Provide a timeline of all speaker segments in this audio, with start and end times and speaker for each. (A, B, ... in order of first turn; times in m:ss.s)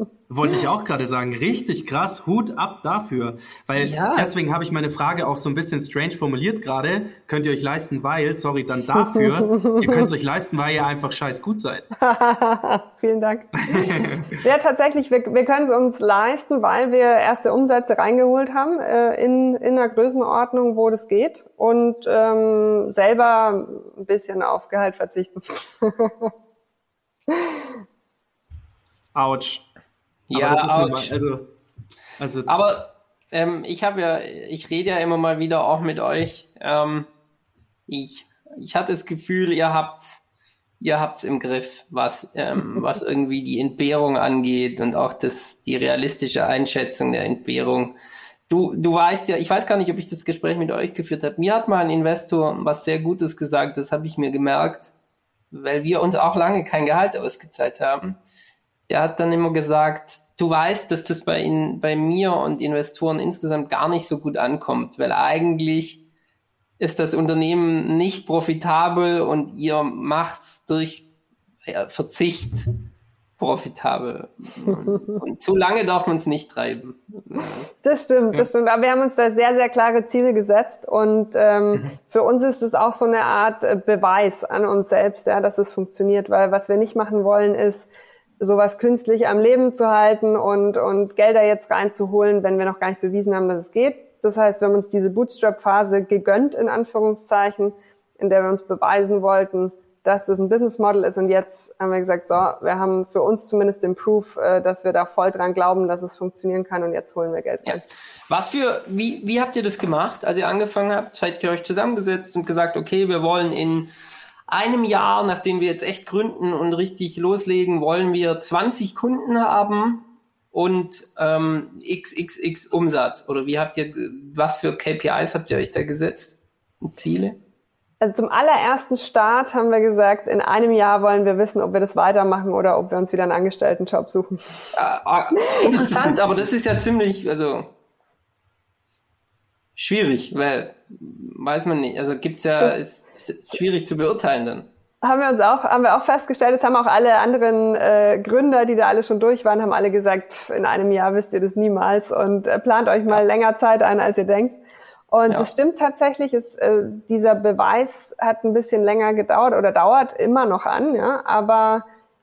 0:00.3-0:11.9 A
0:03.8-0:04.3 B
0:09.0-0:10.1 C
0:12.0-0:13.8 C
0:13.6-0:14.4 A
0:14.4-0:26.3 C
0:29.1-0:29.7 A
0:30.3-0:31.1 B
0:30.3-0:31.5 A
0:32.2-0:32.5 A
0:32.5-0:37.1 B
0:37.9-0:40.2 B
0:40.8-0:47.9 B
0:48.5-0:54.9 B
0:55.5-0:58.2 B
0:58.9-1:06.0 B
1:06.8-1:11.0 B
1:11.6-1:12.7 B
1:13.4-1:17.7 B
1:17.8-1:27.9 C
1:28.4-1:47.8 C
1:47.6-1:53.9 B
1:54.5-2:07.4 B
2:08.0-2:14.4 C
2:14.7-2:17.7 B
2:19.8-2:24.7 B
2:25.0-2:34.6 C
2:35.1-2:41.8 C